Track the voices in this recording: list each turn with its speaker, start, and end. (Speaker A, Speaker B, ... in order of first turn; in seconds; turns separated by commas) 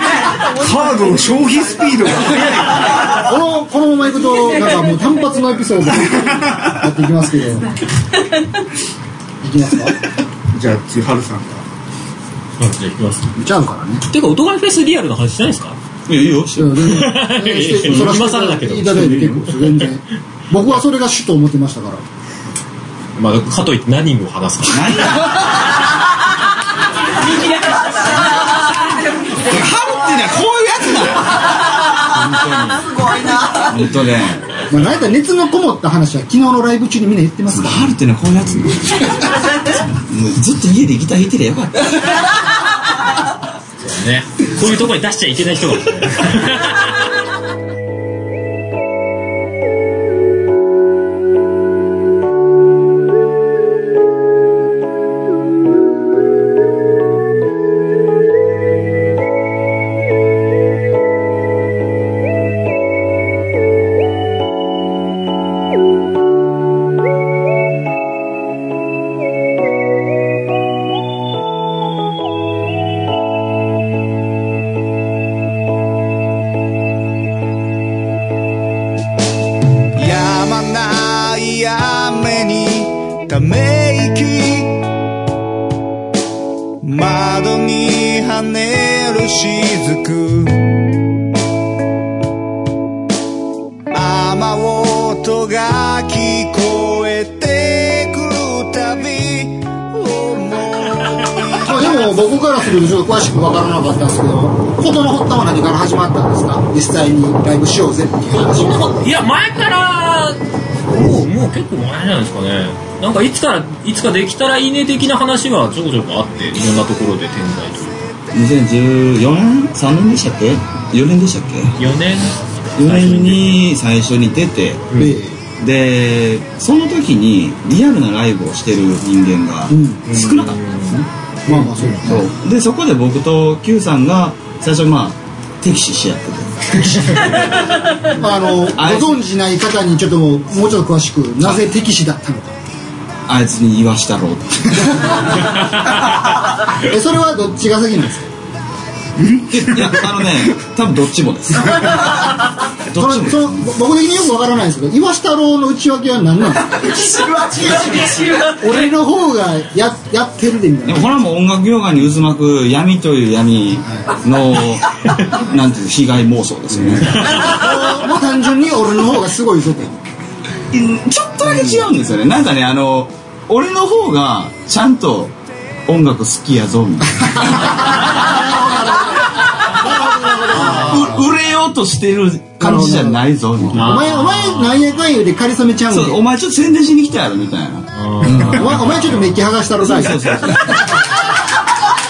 Speaker A: 0.4-3.1, Speaker B: 3.1-7.8, Speaker B: 9.4-10.0, Speaker A: 10.5-11.6, Speaker C: 12.6-13.3, Speaker B: 13.4-14.0, Speaker C: 14.1-15.8, Speaker D: 16.1-17.1, Speaker B: 16.6-22.0, Speaker C: 16.8-19.4, Speaker D: 17.8-18.2, Speaker C: 23.2-25.3, Speaker D: 24.7-25.5, Speaker D: 29.4-34.5, Speaker B: 34.7-37.9, Speaker D: 37.5-42.1, Speaker C: 43.8-47.0, Speaker E: 80.0-84.9, Speaker E: 86.8-90.7, Speaker E: 93.9-101.8, Speaker B: 101.6-109.0, Speaker C: 108.4-118.1, Speaker D: 118.3-121.8, Speaker C: 121.8-123.6, Speaker D: 122.8-124.9, Speaker C: 124.9-125.2, Speaker B: 125.0-125.4, Speaker D: 125.6-131.1, Speaker B: 129.7-130.1, Speaker C: 130.1-132.0, Speaker B: 131.5-132.3, Speaker D: 131.9-137.5, Speaker B: 138.1-142.6, Speaker D: 138.8-139.2, Speaker D: 143.3-145.3, Speaker B: 146.8-148.3, Speaker D: 149.4-152.2, Speaker D: 152.9-153.7, Speaker B: 152.9-157.3, Speaker B: 158.4-161.2, Speaker D: 160.9-167.4, Speaker B: 167.2-170.0, Speaker D: 170.7-175.3, Speaker D: 175.9-177.9, Speaker B: 178.0-181.3, Speaker D: 180.5-184.0, Speaker B: 182.6-186.2, Speaker C: 183.7-184.8, Speaker D: 185.9-189.2, Speaker C: 187.9-189.2, Speaker B: 188.2-190.8, Speaker D: 189.8-191.0